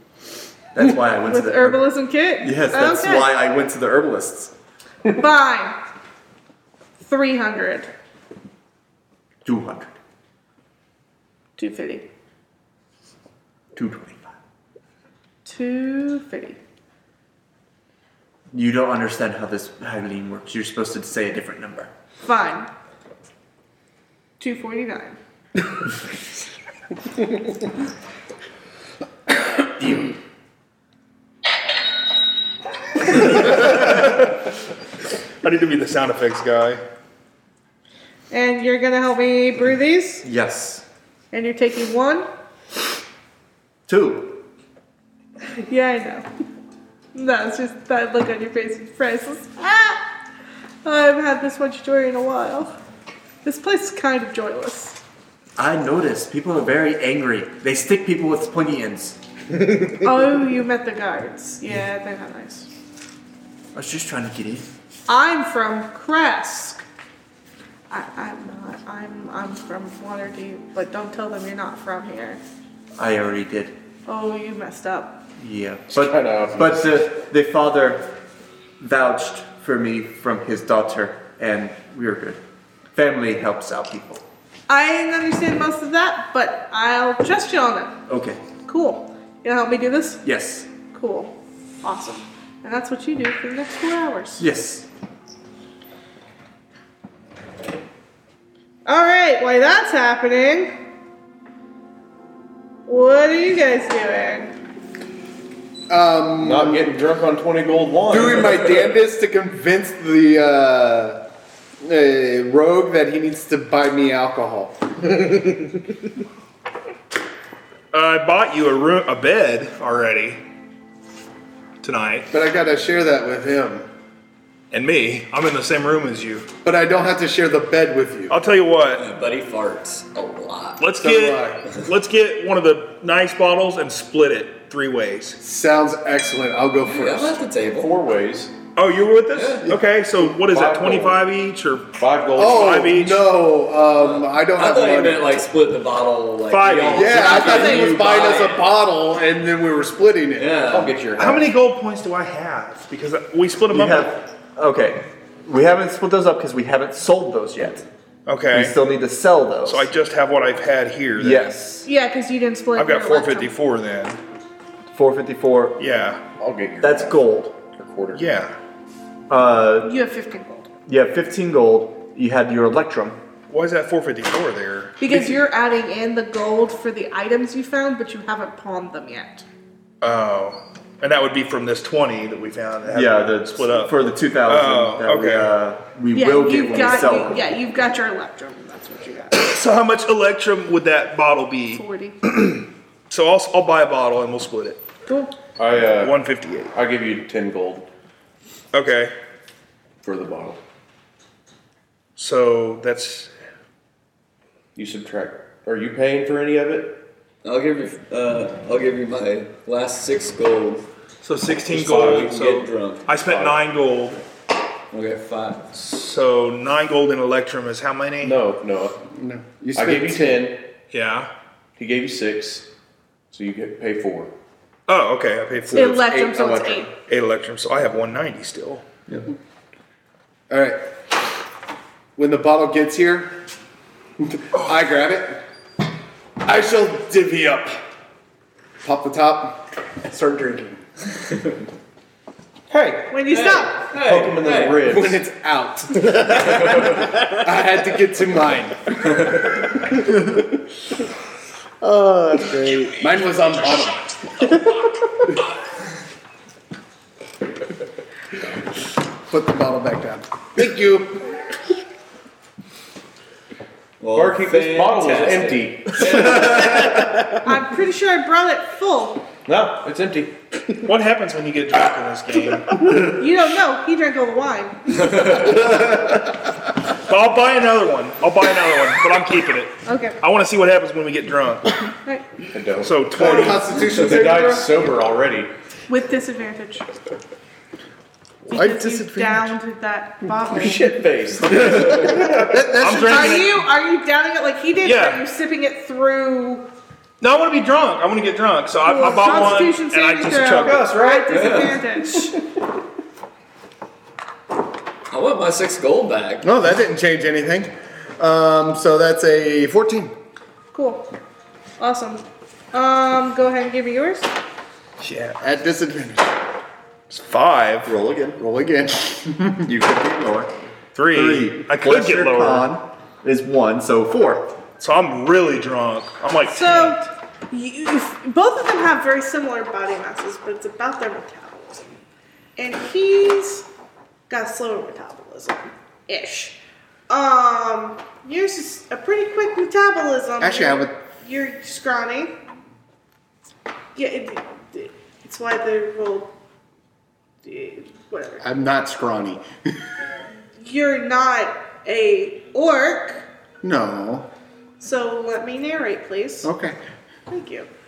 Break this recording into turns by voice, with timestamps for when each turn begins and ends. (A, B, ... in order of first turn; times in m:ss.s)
0:00.7-0:04.5 A
0:01.2-0:03.3 B
0:05.1-0:05.8 B
0:07.0-0:07.9 B
0:09.4-0:09.9 A
0:11.6-0:12.0 B
0:13.7-0:14.3 A
0:15.4-0:16.6 B
0:18.5-0:21.9 A
0:22.2-0:22.7 B
0:24.4-0:25.2 B
0:29.6-0:30.2 A
0:33.1-0:34.3 C
0:35.4-0:36.8 C
0:38.3-0:40.2 B
0:40.2-0:40.8 A
0:41.3-0:42.3 B
0:43.9-0:44.4 A
0:45.5-0:46.2 B
0:47.1-0:50.1 B
0:50.8-0:52.7 B
0:53.4-0:55.0 B
0:55.6-0:59.2 A
1:00.0-1:02.7 B
1:03.7-1:04.7 A
1:05.1-1:06.8 B
1:07.9-1:12.4 B
1:13.0-1:13.7 A
1:14.0-1:15.2 B
1:15.4-1:18.1 A
1:15.9-1:17.0 D
1:18.8-1:22.4 A
1:22.9-1:24.2 A
1:24.7-1:28.0 B
1:28.1-1:28.4 A
1:28.6-1:30.2 B
1:30.2-1:30.7 A
1:30.9-1:34.4 B
1:34.4-1:34.9 A
1:38.8-1:40.7 B
1:42.9-1:44.5 B
1:45.9-1:46.9 E
1:46.4-1:48.8 D
1:48.1-1:51.2 E
1:51.8-1:55.7 E
1:57.9-2:00.4 C
2:01.8-2:02.3 C
2:02.3-2:03.9 E
2:04.7-2:06.4 C
2:06.6-2:08.4 E
2:08.3-2:09.0 C
2:08.9-2:10.9 F
2:10.8-2:15.4 C
2:11.0-2:11.6 E
2:15.4-2:17.4 E
2:16.8-2:17.9 F
2:17.7-2:18.5 D
2:18.8-2:23.2 C
2:19.3-2:19.7 F
2:20.3-2:21.2 D
2:22.0-2:22.9 D
2:22.4-2:25.4 E
2:23.9-2:28.7 F
2:26.5-2:27.6 C
2:26.9-2:30.5 E
2:27.2-2:28.0 B
2:30.4-2:31.0 F
2:30.7-2:31.5 D
2:31.2-2:34.2 C
2:33.7-2:37.8 A
2:38.2-2:38.7 C
2:38.5-2:39.9 A
2:39.6-2:41.5 C
2:41.1-2:41.9 A
2:41.8-2:43.5 B
2:42.7-2:44.2 C
2:44.9-2:45.8 A
2:45.8-2:46.2 C
2:46.4-2:48.2 D
2:46.8-2:47.5 A
2:48.1-2:48.5 C
2:49.3-2:49.9 A
2:49.8-2:50.7 B
2:50.9-2:53.2 A
2:53.5-2:55.3 C
2:55.0-2:59.4 B
3:00.0-3:05.5 C
3:02.9-3:07.4 A
3:06.1-3:09.5 B
3:09.3-3:14.8 C
3:11.7-3:12.2 B
3:15.1-3:15.3 B
3:15.6-3:16.2 D
3:15.9-3:16.7 C
3:16.7-3:17.9 D
3:18.7-3:19.1 C
3:20.0-3:20.6 D
3:22.2-3:23.3 C
3:24.8-3:27.0 D
3:27.4-3:30.8 F
3:31.2-3:34.2 C
3:31.7-3:32.4 D
3:31.8-3:33.4 F
3:34.9-3:35.6 F
3:35.7-3:38.4 C
3:38.2-3:39.0 D
3:39.1-3:40.4 E
3:39.7-3:40.6 D
3:40.9-3:41.3 C
3:41.8-3:42.7 D
3:43.3-3:44.3 D
3:44.9-3:46.1 C
3:45.7-3:46.8 A
3:45.7-3:46.9 B
3:47.1-3:48.8 C
3:50.5-3:50.8 E
3:52.2-3:53.3 E
3:54.2-3:55.4 E
3:56.4-3:57.8 E
3:58.8-4:00.8 E
4:03.1-4:03.8 B
4:03.3-4:04.9 F
4:03.9-4:05.2 D
4:04.8-4:10.5 E
4:11.8-4:14.9 E
4:19.3-4:21.3 E
4:24.0-4:26.9 F
4:24.1-4:26.9 D
4:27.3-4:29.2 B
4:29.4-4:30.3 D
4:30.8-4:33.2 C
4:33.1-4:35.2 B
4:37.0-4:41.7 C
4:39.8-4:40.2 B
4:42.5-4:45.5 D
4:42.8-4:43.7 C
4:43.1-4:44.8 E
4:45.9-4:46.9 B
4:48.4-4:49.5 E
4:48.5-4:50.9 B
4:50.5-4:52.6 D
4:51.5-4:53.4 E
4:52.8-4:53.7 C
4:52.9-4:56.7 B
4:54.8-4:55.2 C
4:57.2-5:01.0 C
4:58.8-5:02.4 B
5:00.5-5:01.6 D
5:01.3-5:01.8 F
5:05.1-5:06.5 F
5:06.4-5:10.1 E
5:10.7-5:11.1 B
5:11.8-5:14.3 B
5:15.0-5:15.4 C
5:15.4-5:16.3 E
5:17.1-5:17.9 C
5:17.8-5:18.4 A
5:18.4-5:19.7 E
5:19.6-5:20.5 A
5:20.9-5:22.7 C
5:21.1-5:24.5 A
5:24.8-5:27.0 C
5:26.5-5:31.9 B
5:32.6-5:33.7 B
5:34.3-5:42.4 B
5:40.4-5:40.9 E
5:43.9-5:46.3 B
5:47.4-5:48.4 B
5:48.4-5:49.4 E
5:50.6-5:53.2 B
5:53.6-5:54.3 E
5:54.8-5:56.5 B
5:56.4-5:56.8 E
5:57.3-5:57.7 B